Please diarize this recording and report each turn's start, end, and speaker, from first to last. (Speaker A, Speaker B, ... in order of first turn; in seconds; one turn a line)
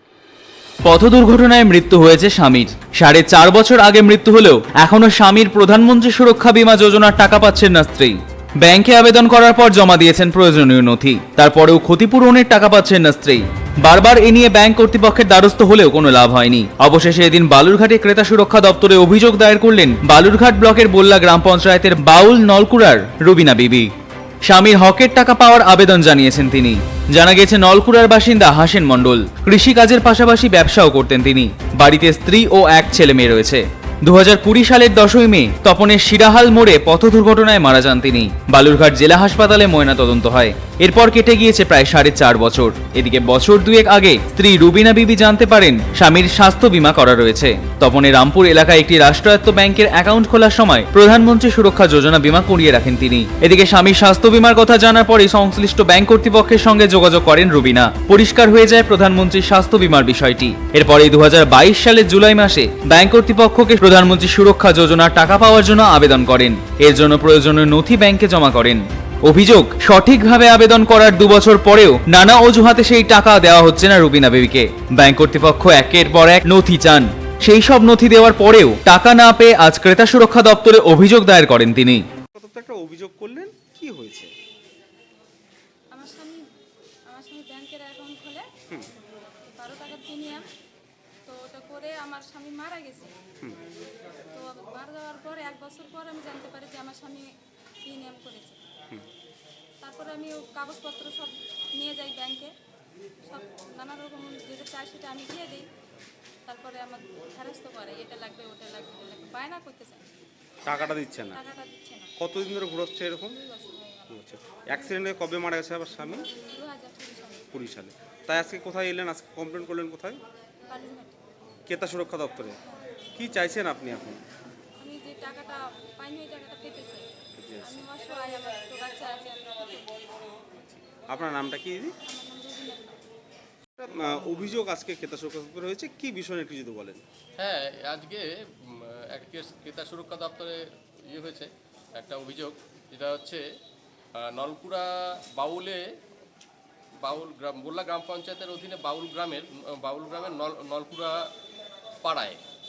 Speaker A: 0.8-23.9
Speaker A: 24.5-82.0
Speaker B: 82.3-84.3
Speaker C: 85.9-86.4
Speaker C: 87.1-88.5
Speaker C: 89.5-90.5
Speaker C: 91.3-93.1
Speaker C: 94.3-97.3
Speaker C: 97.8-98.6
Speaker C: 99.8-102.5
Speaker C: 103.3-105.7
Speaker C: 106.5-110.0
Speaker B: 110.7-111.4
Speaker C: 111.3-112.1
Speaker B: 112.2-113.4
Speaker C: 113.4-114.2
Speaker B: 114.1-116.3
Speaker C: 116.4-117.5
Speaker B: 117.5-120.2
Speaker C: 120.7-121.2
Speaker B: 121.7-122.6
Speaker B: 123.2-124.2
Speaker C: 124.8-127.1
Speaker B: 127.4-127.9
Speaker C: 127.7-130.0
Speaker B: 131.1-132.0
Speaker C: 132.1-133.0
Speaker B: 133.8-137.0
Speaker D: 137.4-143.4
Speaker D: 144.2-145.8
Speaker D: 147.0-151.2
Speaker D: 152.0-152.4